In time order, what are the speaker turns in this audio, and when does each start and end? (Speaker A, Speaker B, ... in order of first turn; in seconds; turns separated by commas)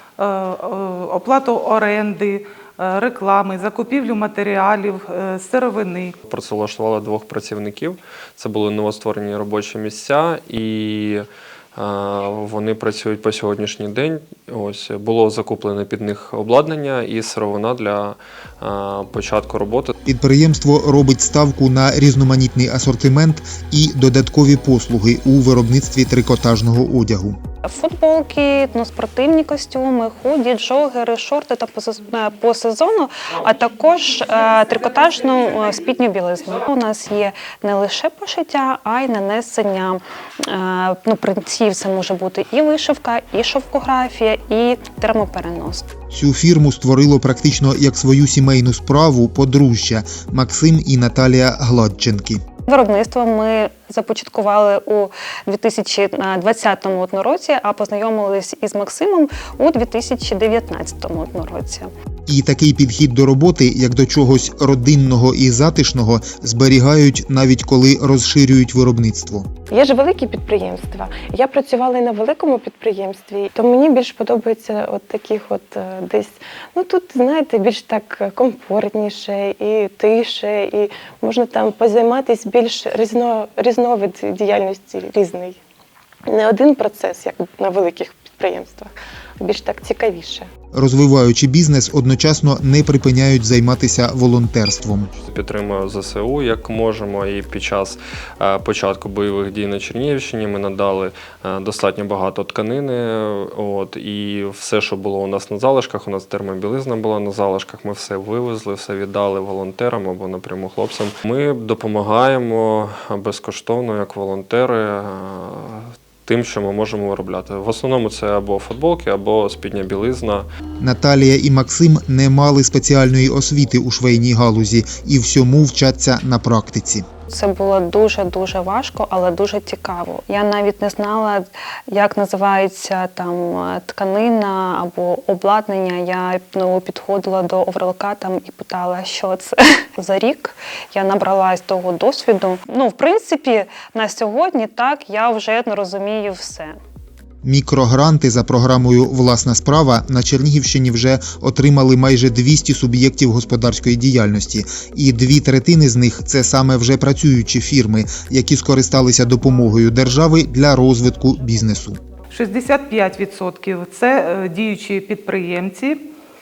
Speaker A: 0.2-6.2, Speaker B: 6.3-19.9, Speaker C: 20.1-27.4, Speaker D: 27.6-45.9, Speaker A: 34.3-36.0, Speaker C: 46.1-52.4, Speaker D: 52.7-61.9, Speaker C: 62.3-69.5, Speaker E: 69.7-85.6, Speaker E: 86.3-90.5, Speaker C: 90.7-95.1, Speaker B: 95.2-120.5, Speaker C: 120.8-127.0, Speaker D: 127.3-146.8, Speaker C: 147.4-162.0, Speaker A: 162.3-166.1